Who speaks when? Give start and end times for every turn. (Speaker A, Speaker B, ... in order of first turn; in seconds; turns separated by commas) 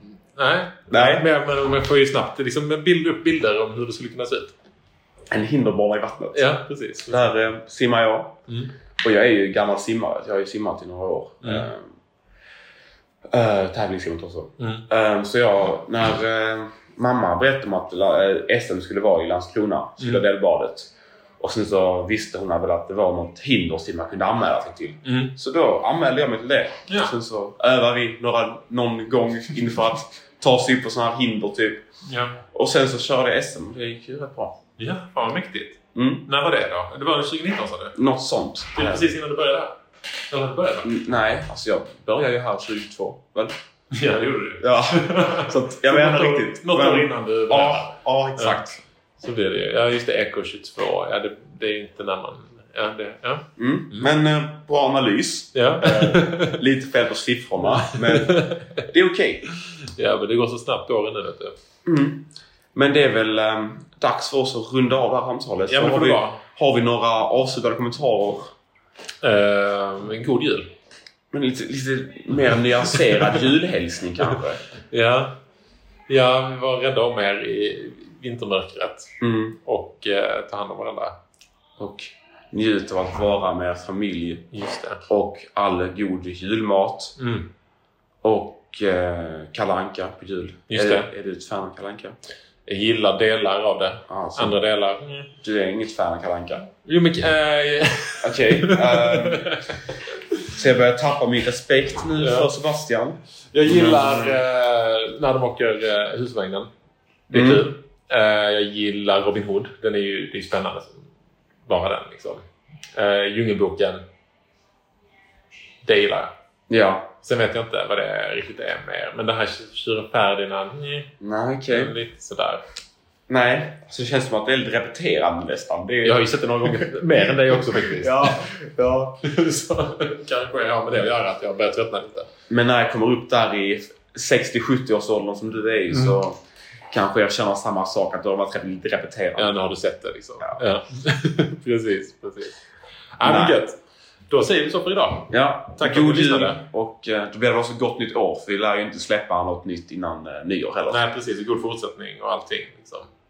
Speaker A: 0.3-4.5, Speaker B: 0.9-1.3, Speaker B: 5.3-6.5, Speaker A: 6.3-7.3, Speaker B: 7.0-8.4, Speaker A: 8.5-8.7, Speaker B: 9.0-11.9, Speaker A: 11.4-11.7, Speaker B: 13.3-31.8, Speaker A: 14.6-14.9, Speaker A: 25.0-25.3, Speaker A: 26.9-27.1, Speaker A: 32.0-32.4, Speaker B: 32.5-34.6, Speaker A: 34.8-38.0, Speaker B: 35.9-36.2, Speaker B: 38.0-39.1, Speaker A: 38.7-39.8, Speaker A: 40.3-40.9, Speaker B: 40.8-43.5, Speaker A: 43.9-48.6, Speaker B: 44.6-48.8, Speaker A: 49.2-54.1, Speaker B: 53.6-59.4, Speaker A: 55.5-56.6, Speaker A: 57.7-58.9, Speaker A: 59.5-61.5, Speaker B: 61.8-68.5, Speaker A: 65.7-66.4, Speaker A: 69.2-70.7, Speaker B: 71.3-74.6, Speaker A: 74.9-75.3, Speaker A: 76.1-79.1, Speaker B: 79.2-79.6, Speaker A: 79.6-81.2, Speaker B: 81.8-84.5, Speaker A: 84.5-85.0, Speaker B: 85.1-87.2, Speaker A: 87.2-87.5, Speaker B: 88.2-92.2, Speaker A: 90.7-91.1, Speaker A: 92.7-95.3, Speaker B: 94.1-94.6, Speaker B: 95.4-96.7, Speaker A: 96.8-100.1, Speaker B: 98.2-99.6, Speaker B: 100.4-104.4, Speaker A: 102.2-102.5, Speaker A: 103.5-106.7, Speaker A: 107.3-111.1, Speaker B: 107.3-107.6, Speaker A: 111.7-114.0, Speaker A: 115.8-116.3, Speaker B: 116.7-117.1, Speaker A: 117.2-121.1, Speaker B: 121.2-121.9, Speaker A: 121.7-122.6, Speaker B: 123.3-129.2, Speaker A: 126.0-128.4, Speaker A: 129.2-132.3, Speaker B: 132.5-136.4, Speaker A: 135.9-136.2, Speaker B: 136.9-139.6, Speaker A: 139.4-142.6, Speaker A: 143.2-143.8, Speaker B: 143.2-143.6, Speaker A: 144.3-146.6, Speaker B: 145.3-151.0, Speaker A: 150.9-153.1